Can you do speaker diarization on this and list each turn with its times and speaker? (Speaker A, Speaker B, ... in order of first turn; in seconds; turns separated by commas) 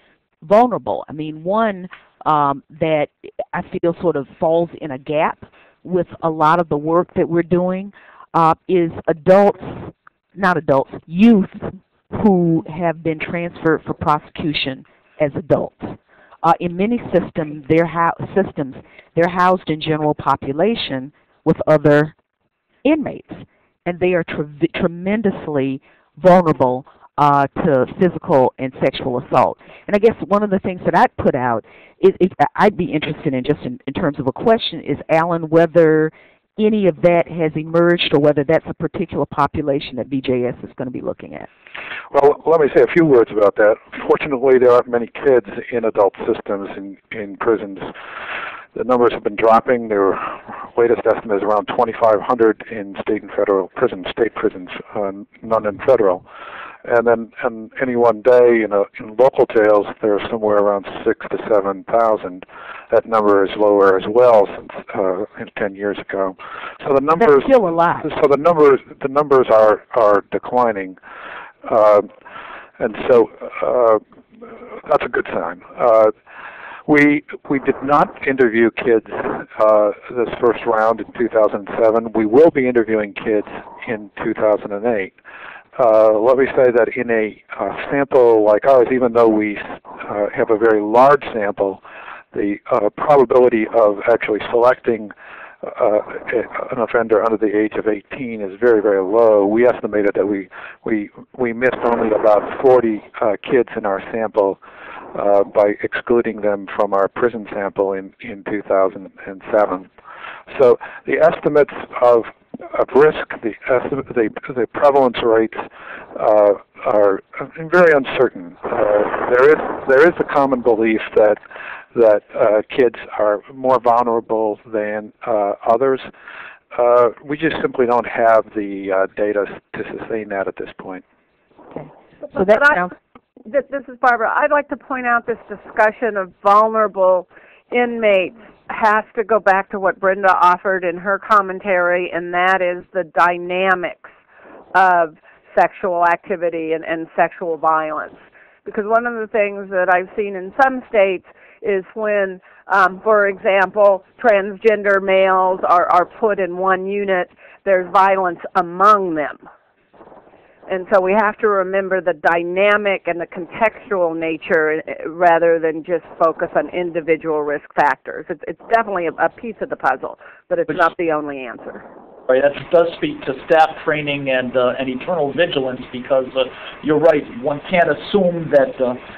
Speaker A: 0.4-22.1, Speaker A: 22.8-41.5, Speaker B: 42.1-47.9, Speaker B: 48.7-56.2, Speaker B: 56.8-71.0, Speaker A: 67.2-68.1, Speaker B: 71.6-72.1, Speaker B: 72.8-74.0, Speaker B: 74.8-76.1, Speaker B: 76.8-85.1, Speaker B: 85.8-91.8, Speaker B: 92.3-104.6, Speaker B: 105.1-109.9, Speaker B: 110.5-121.4, Speaker B: 121.9-126.1, Speaker B: 126.7-131.0, Speaker A: 131.7-132.9, Speaker C: 132.3-132.9, Speaker C: 133.4-144.1, Speaker C: 144.7-159.4, Speaker C: 160.7-171.8, Speaker D: 172.3-179.0